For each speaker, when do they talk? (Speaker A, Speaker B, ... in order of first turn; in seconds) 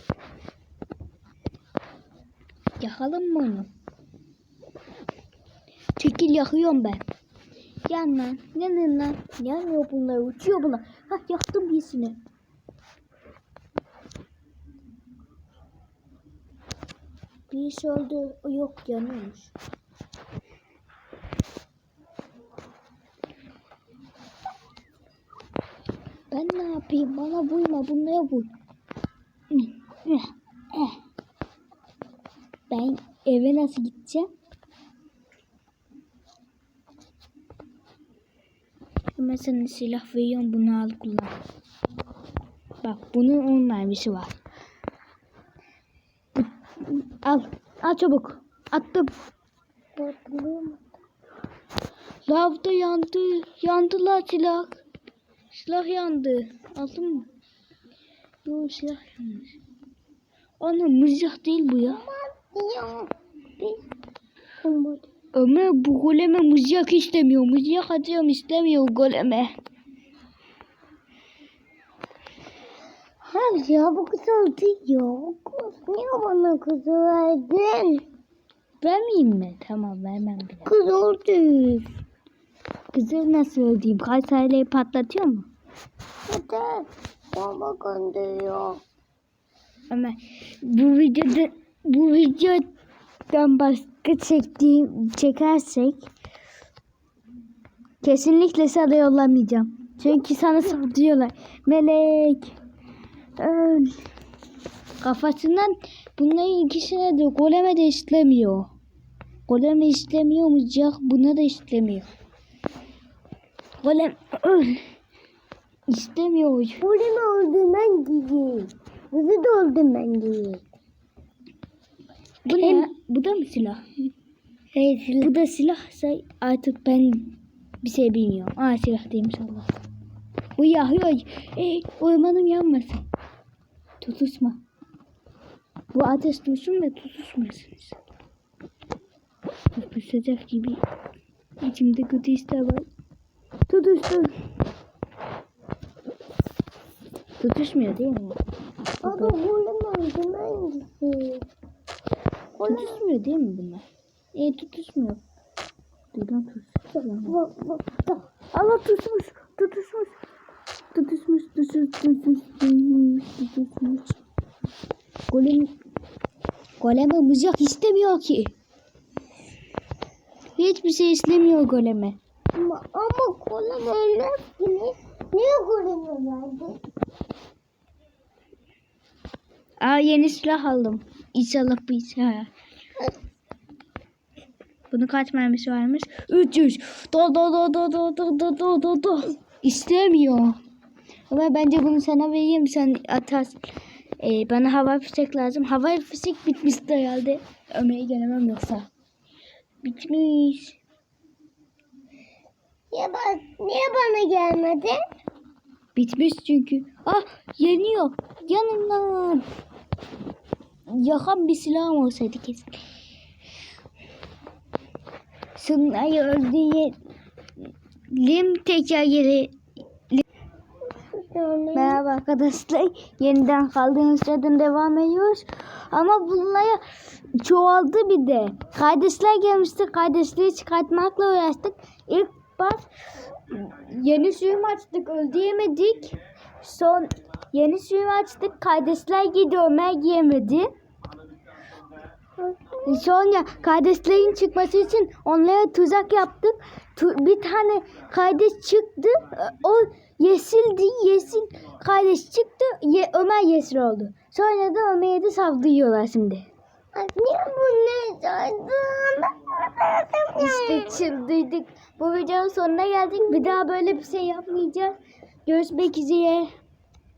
Speaker A: 2.8-3.7, 6.0-7.0, 7.8-12.2, 17.5-19.5, 26.3-28.5, 29.5-31.0, 32.7-34.3, 39.1-41.3, 42.8-44.3, 46.3-49.1, 52.2-54.8, 55.5-57.3, 58.4-59.5, 60.6-62.0, 65.3-69.5, 78.8-80.7, 82.9-85.5, 89.9-92.7, 93.3-96.1, 98.0-102.5, 103.4-104.0, 105.0-108.7, 109.5-112.1, 113.8-114.8, 115.9-116.8, 122.5-123.8, 125.2-129.7, 130.6-133.0, 134.0-134.6, 135.9-138.0, 139.7-140.8, 141.6-142.9, 143.7-144.3, 147.4-148.4, 149.0-149.4, 152.6-155.2, 156.1-157.4, 158.5-160.1, 160.9-164.2, 165.3-165.7, 166.8-168.5, 170.6-172.2, 179.8-182.5, 184.9-190.6, 191.3-193.6, 194.2-198.9, 199.8-200.8, 205.9-209.4, 210.9-212.8, 215.6-216.9, 218.1-219.5, 221.7-226.8, 227.3-232.9, 233.5-240.7, 242.8-256.5, 260.4-266.5
Speaker B: 50.0-50.9, 61.9-63.9, 64.6-65.0, 73.2-78.0, 80.7-81.9, 86.3-88.8, 116.8-120.6, 122.5-122.9, 124.7-125.3, 149.0-151.4, 152.6-153.0, 157.2-158.2, 172.5-176.8, 202.9-205.0, 220.9-222.0, 242.4-243.1, 256.9-261.0, 263.3-263.6